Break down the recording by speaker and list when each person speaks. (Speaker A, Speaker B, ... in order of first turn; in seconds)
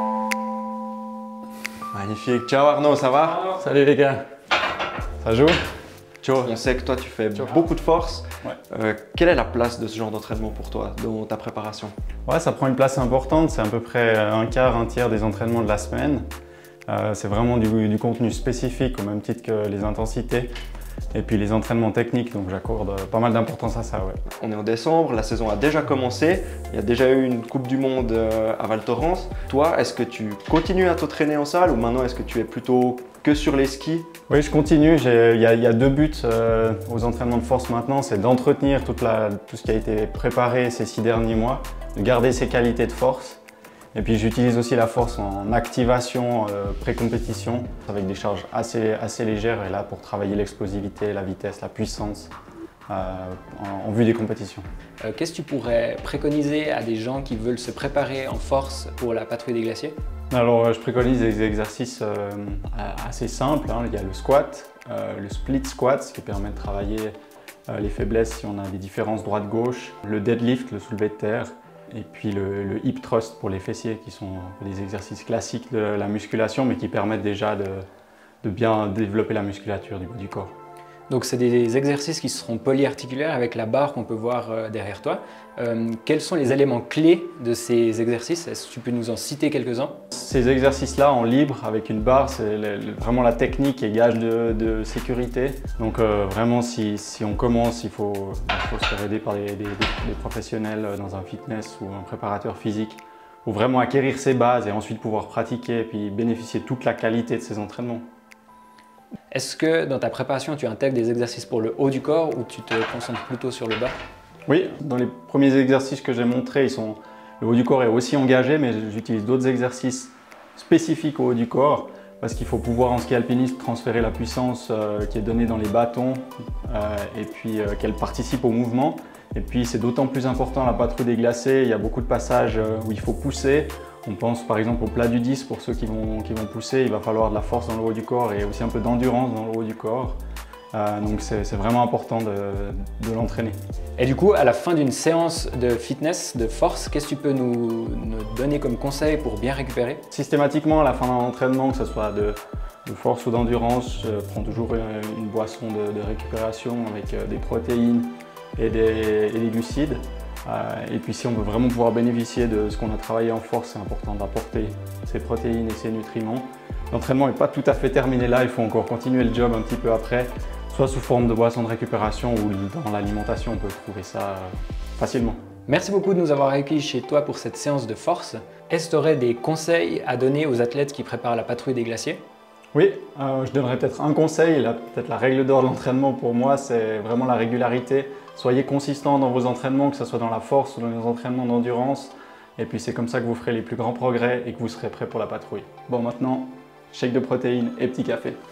Speaker A: 1.9-3.5, 6.2-11.9, 24.3-34.1
Speaker B: 3.6-4.2, 5.2-5.6, 12.2-16.2, 16.9-20.5, 21.1-24.2, 34.3-43.4, 43.9-52.3, 52.9-54.6, 60.3-67.2, 67.7-77.8, 78.4-80.5, 90.1-108.0, 114.5-140.2, 140.7-143.6, 150.1-175.4, 182.7-198.4
Speaker C: 55.0-60.0, 81.1-90.0, 109.3-114.0, 144.0-150.0, 175.7-182.2